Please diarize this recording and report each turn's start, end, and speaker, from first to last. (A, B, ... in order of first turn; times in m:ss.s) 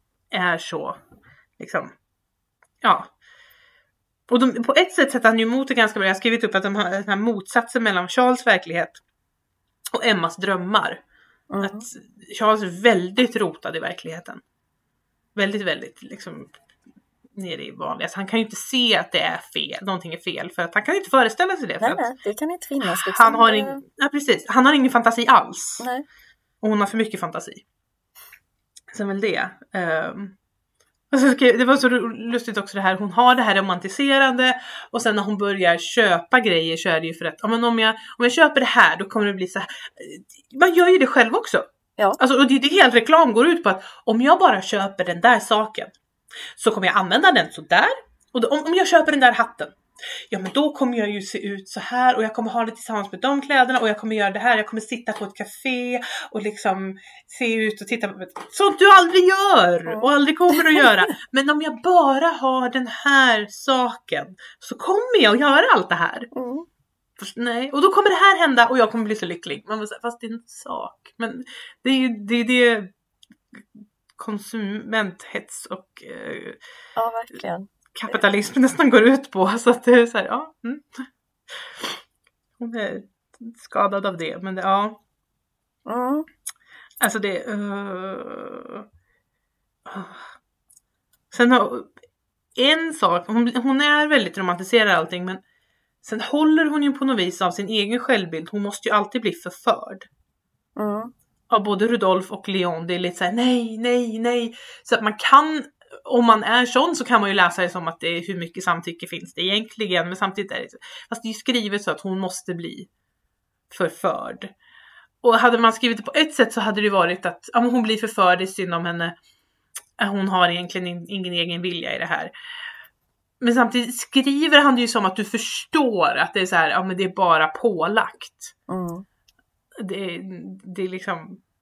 0:00.3-0:01.0 A
0:01.6-0:01.9 A
0:02.8-0:03.1 A
0:04.3-0:09.0 A
0:09.9-0:11.0 A
0:11.5-0:11.9 B
0:11.6-0:14.4 A
0:15.4-0:16.6 A
0:17.4-0:22.0 A
0:21.8-0:23.8 B
0:22.8-0:25.8 A
0:25.8-0:26.0 B
0:26.6-0:27.6 A
0:28.9-0:30.4 A
0:31.1-0:41.7 A
0:42.2-0:46.0 A
0:46.6-0:49.8 A
0:50.3-1:06.3 A
0:59.9-1:00.8 B
1:06.3-1:06.7 B
1:07.2-1:12.9 A
1:14.2-1:16.6 A
1:17.0-1:18.2 B
1:17.9-1:22.0 A
1:22.6-1:25.0 A
1:25.9-1:26.3 B
1:27.0-1:28.8 A
1:29.9-1:30.3 A
1:31.3-1:31.9 A
1:32.6-1:35.4 A
1:36.0-1:40.1 A
1:40.8-1:41.1 B
1:41.5-1:52.9 A
1:53.7-1:54.5 A
1:55.2-1:59.1 A
2:00.0-2:02.3 A
2:03.4-2:08.5 A
2:08.7-2:09.1 B
2:09.8-2:11.4 A